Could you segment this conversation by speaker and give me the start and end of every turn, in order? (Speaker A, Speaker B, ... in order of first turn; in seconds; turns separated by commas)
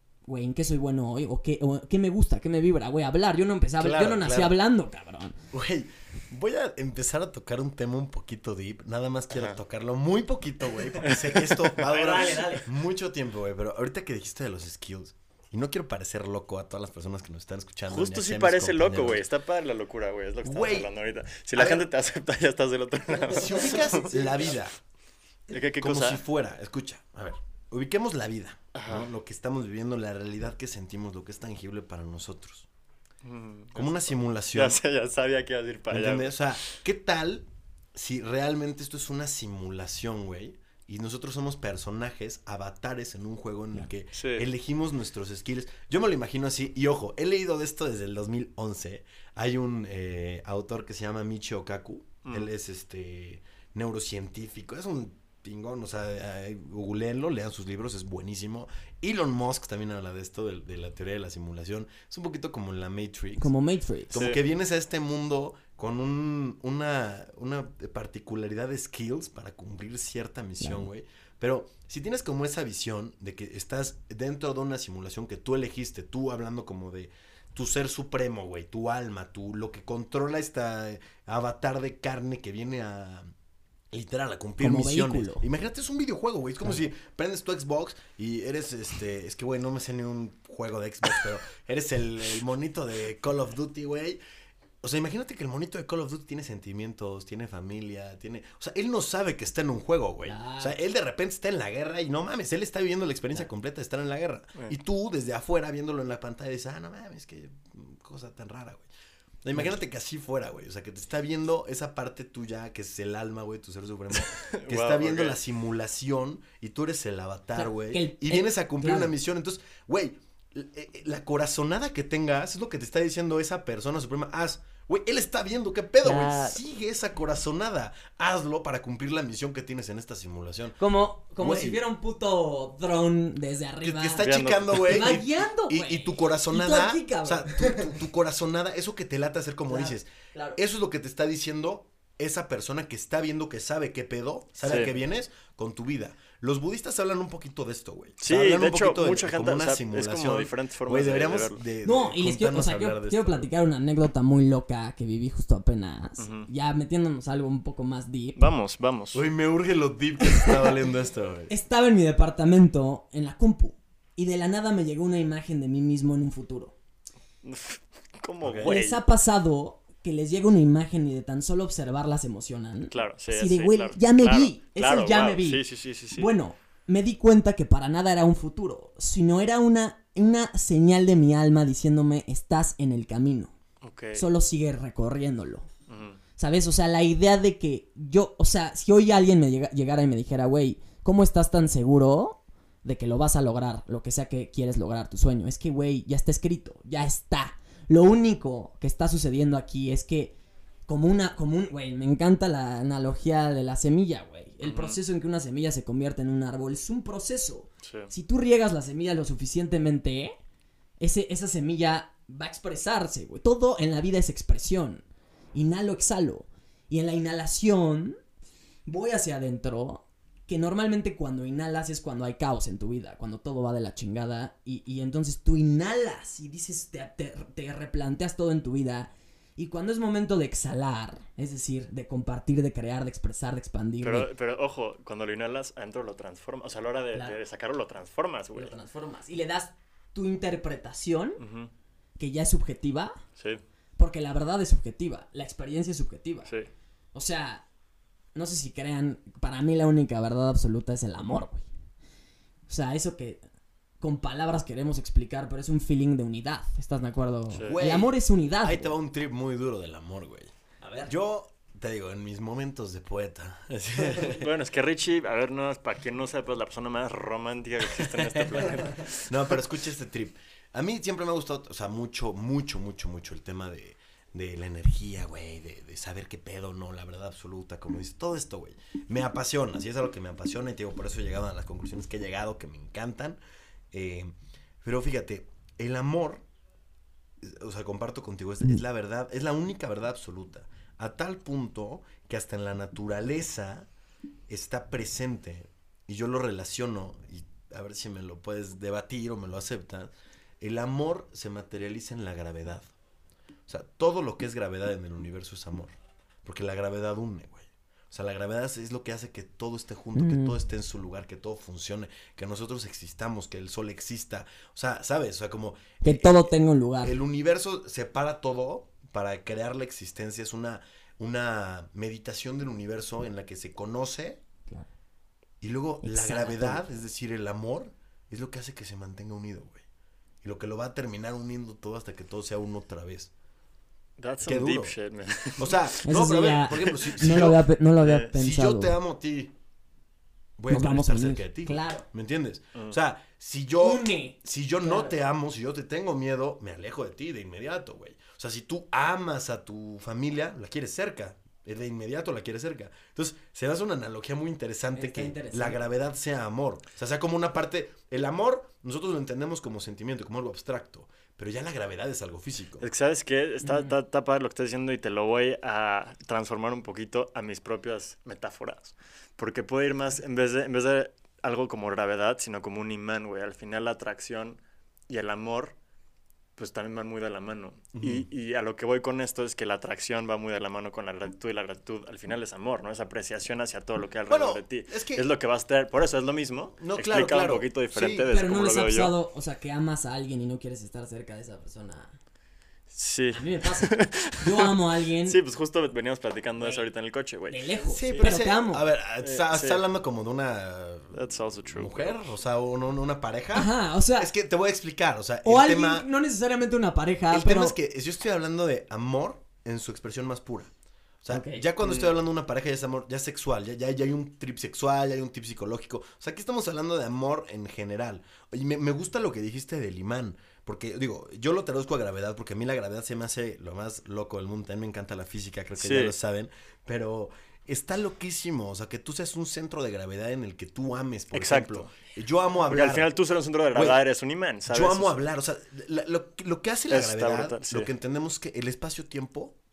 Speaker A: 0.3-5.4, Speaker B: 3.8-4.6, Speaker B: 5.5-19.2, Speaker C: 11.0-12.5, Speaker A: 11.8-12.6, Speaker C: 17.9-24.5, Speaker B: 20.4-20.9, Speaker B: 21.5-21.9, Speaker A: 23.2-24.4, Speaker B: 23.3-24.7, Speaker C: 25.5-26.2, Speaker B: 25.8-32.7, Speaker C: 28.8-29.1, Speaker C: 33.2-36.8, Speaker B: 33.8-34.8, Speaker B: 35.9-63.5, Speaker C: 44.1-44.5, Speaker C: 52.2-52.5, Speaker A: 63.4-64.2, Speaker C: 64.1-64.4, Speaker B: 64.1-83.3, Speaker B: 83.9-94.2, Speaker A: 84.6-85.4, Speaker B: 94.8-108.9, Speaker A: 100.2-100.8, Speaker B: 109.4-130.8, Speaker C: 114.1-115.4, Speaker A: 117.6-119.1, Speaker A: 126.0-126.6, Speaker A: 130.8-134.3, Speaker B: 131.4-131.8, Speaker B: 133.8-153.5, Speaker C: 134.2-134.9, Speaker A: 134.8-137.9, Speaker A: 139.7-140.6, Speaker C: 144.6-144.9, Speaker C: 148.2-151.6, Speaker A: 151.8-158.4, Speaker C: 156.2-156.5, Speaker C: 158.4-159.2, Speaker B: 159.1-161.5, Speaker A: 160.2-160.7, Speaker A: 161.5-166.7, Speaker C: 167.4-169.0, Speaker B: 168.4-168.7, Speaker A: 168.6-175.6, Speaker C: 172.9-176.3, Speaker A: 176.2-183.5, Speaker C: 183.8-184.2, Speaker A: 184.1-185.7, Speaker C: 185.9-186.2, Speaker A: 186.4-200.4, Speaker A: 200.9-210.4, Speaker C: 204.6-205.0, Speaker C: 207.8-208.1, Speaker A: 211.0-215.0, Speaker A: 215.5-218.2, Speaker A: 218.9-234.3, Speaker C: 234.0-238.8, Speaker A: 238.5-241.4, Speaker C: 241.4-241.7, Speaker A: 242.2-243.2, Speaker A: 244.0-246.5, Speaker A: 247.1-247.6, Speaker A: 248.3-251.7, Speaker A: 252.7-253.4, Speaker A: 254.0-258.9, Speaker C: 257.5-257.8, Speaker B: 257.6-260.5, Speaker A: 260.8-261.1, Speaker B: 261.0-264.5, Speaker C: 264.2-269.6, Speaker B: 268.0-283.4, Speaker B: 283.9-286.4, Speaker B: 287.4-293.9, Speaker B: 294.5-302.9, Speaker B: 303.7-324.4, Speaker A: 310.1-310.6, Speaker A: 316.0-317.2, Speaker B: 325.6-329.8, Speaker A: 326.0-326.9, Speaker B: 330.4-333.3, Speaker C: 334.2-336.0, Speaker B: 334.4-334.9, Speaker B: 335.6-337.7, Speaker A: 336.1-338.9, Speaker C: 336.8-337.5, Speaker C: 338.0-338.3, Speaker B: 338.3-339.5, Speaker B: 340.6-362.9, Speaker A: 340.7-342.1, Speaker A: 343.8-345.2, Speaker A: 354.9-355.8, Speaker C: 362.8-375.7, Speaker A: 363.6-363.9, Speaker C: 376.6-389.1, Speaker B: 377.9-378.3, Speaker B: 384.3-385.2, Speaker B: 386.8-388.3, Speaker A: 388.3-392.1, Speaker C: 392.9-394.7, Speaker A: 393.3-395.4, Speaker C: 395.3-398.4, Speaker A: 396.6-396.9, Speaker A: 397.5-398.8, Speaker B: 397.9-401.2, Speaker C: 399.2-399.8, Speaker C: 401.1-402.2, Speaker B: 401.7-406.1, Speaker A: 403.5-404.3, Speaker A: 405.4-407.8, Speaker B: 407.3-410.7, Speaker B: 411.2-433.1, Speaker A: 411.3-411.6, Speaker C: 411.8-412.1, Speaker C: 425.8-426.1, Speaker C: 431.3-431.9, Speaker C: 432.7-435.2, Speaker B: 433.7-434.0, Speaker B: 434.7-439.6, Speaker C: 436.9-437.9